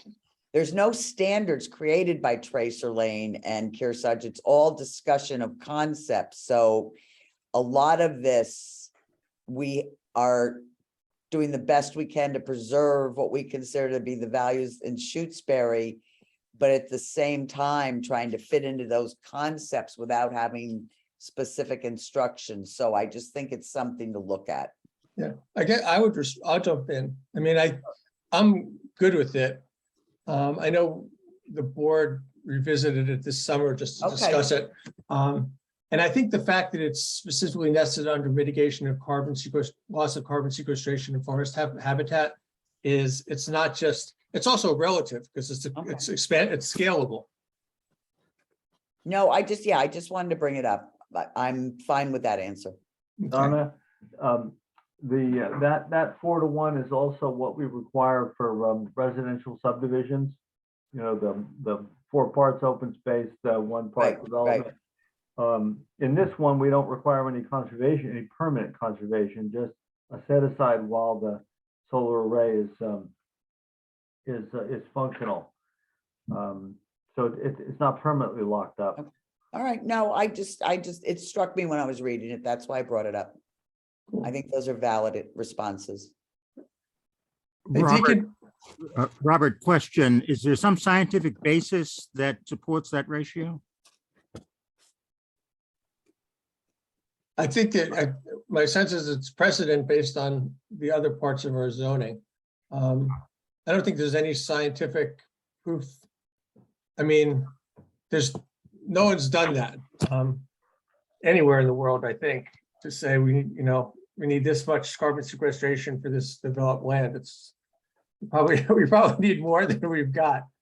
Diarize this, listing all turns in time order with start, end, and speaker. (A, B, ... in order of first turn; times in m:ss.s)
0:00.5-0:06.9 A
0:07.5-0:08.9 A
0:09.5-0:10.6 A
0:11.3-0:16.0 A
0:16.6-0:24.7 A
0:25.2-0:27.8 B
0:28.3-0:29.6 B
0:30.3-0:47.3 B
0:34.0-0:34.5 A
0:45.8-0:46.0 A
0:49.0-0:52.8 A
0:53.2-0:53.6 B
0:53.3-1:00.4 C
1:00.9-1:04.7 C
1:04.0-1:04.7 A
1:05.4-1:13.1 C
1:14.3-1:15.5 C
1:16.3-1:19.0 C
1:19.0-1:23.4 A
1:24.2-1:26.1 A
1:27.7-1:28.3 B
1:27.7-1:28.2 D
1:28.9-1:33.6 D
1:37.4-1:42.2 B
1:42.7-1:46.0 B
1:47.0-1:47.5 B
1:48.1-1:50.5 B
1:51.2-1:57.5 B
1:58.3-2:00.5 B